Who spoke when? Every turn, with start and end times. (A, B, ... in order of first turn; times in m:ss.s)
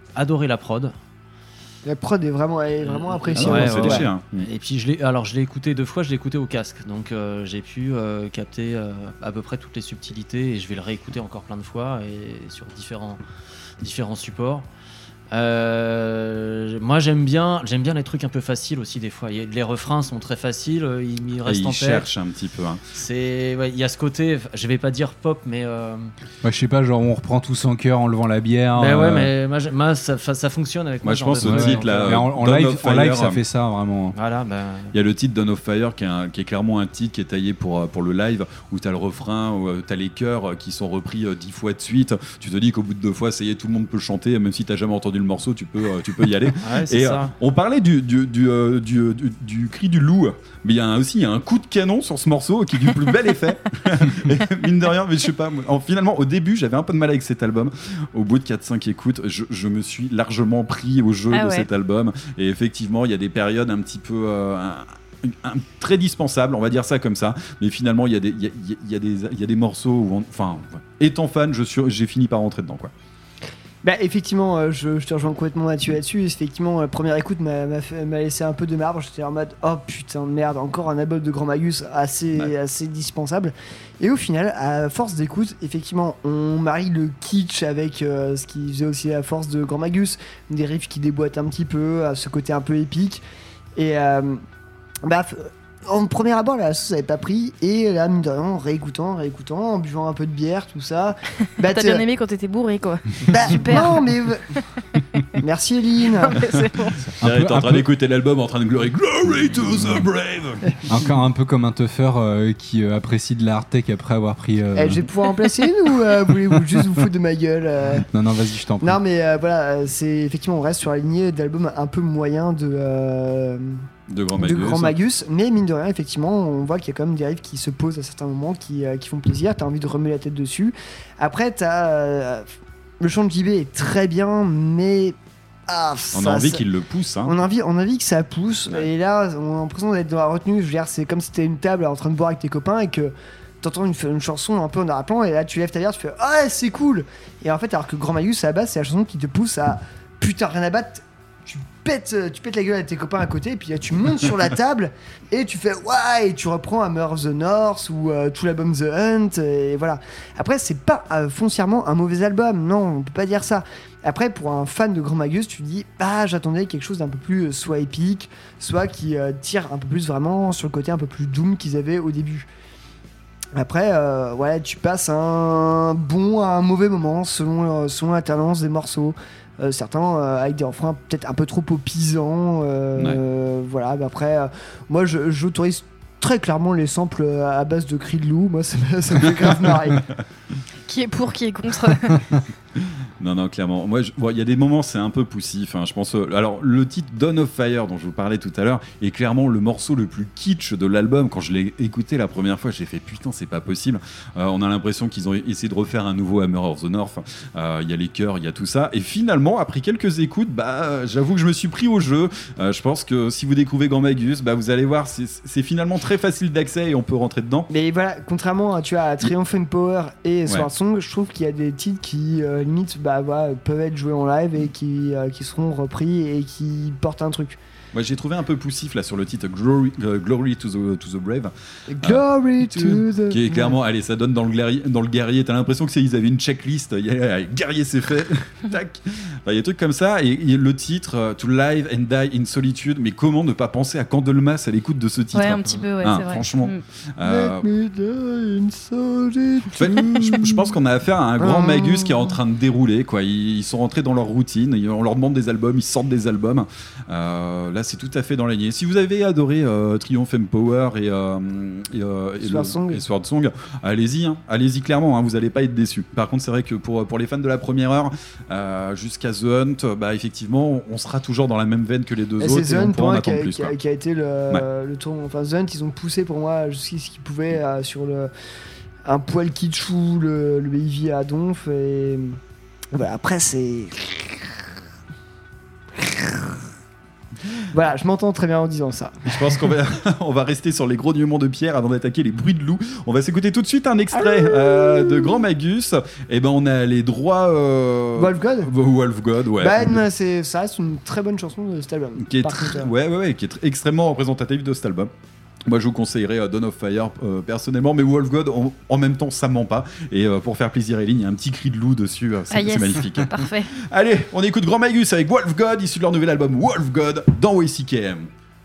0:00.2-0:00.9 A
0:01.8-0:04.1 B
0:02.8-0:13.2 A
0:03.3-0:04.5 C
0:13.8-0:14.7 A
0:15.3-0:22.1 A
0:21.4-0:22.8 C
0:23.0-0:26.1 A
0:26.4-0:29.3 D
0:28.8-0:32.2 A
0:31.0-0:33.4 C
0:31.4-0:34.2 D
0:34.1-0:34.9 A
0:34.9-1:12.9 C
0:46.6-0:47.3 A
1:01.3-1:01.7 E
1:13.8-1:33.2 B
1:33.8-1:34.4 B
1:35.0-1:42.0 B
1:41.6-1:44.0 E
1:43.3-1:44.4 B
1:45.4-1:46.4 B
1:46.2-1:47.0 E
1:47.2-1:47.8 D
1:47.2-1:50.6 C
1:50.9-1:55.1 D
1:54.8-1:58.0 B
1:58.1-1:59.0 D
1:58.8-2:03.8 B
2:04.1-2:05.0 C
2:04.4-2:12.5 B
2:13.0-2:16.6 B
2:16.1-2:17.3 C
2:17.2-2:52.5 B
2:53.5-3:10.0 B
3:10.9-3:12.2 E
3:13.2-3:37.7 C
3:37.7-3:47.6 B
3:47.9-3:52.2 C
3:51.9-3:53.8 B
3:53.3-4:07.6 C
4:05.3-4:06.8 E
4:07.2-4:10.7 B
4:09.7-4:33.7 C
4:11.4-4:12.3 B
4:22.4-4:23.0 B
4:32.4-4:38.3 B
4:39.0-4:42.4 B
4:42.9-4:44.6 B
4:46.0-4:46.6 B
4:47.7-4:49.5 B
4:49.2-5:00.0 C
4:54.1-4:55.4 B
4:58.2-4:58.7 B
4:59.6-5:02.9 B
5:02.2-5:05.1 C
5:05.6-5:18.3 C
5:12.5-5:13.7 E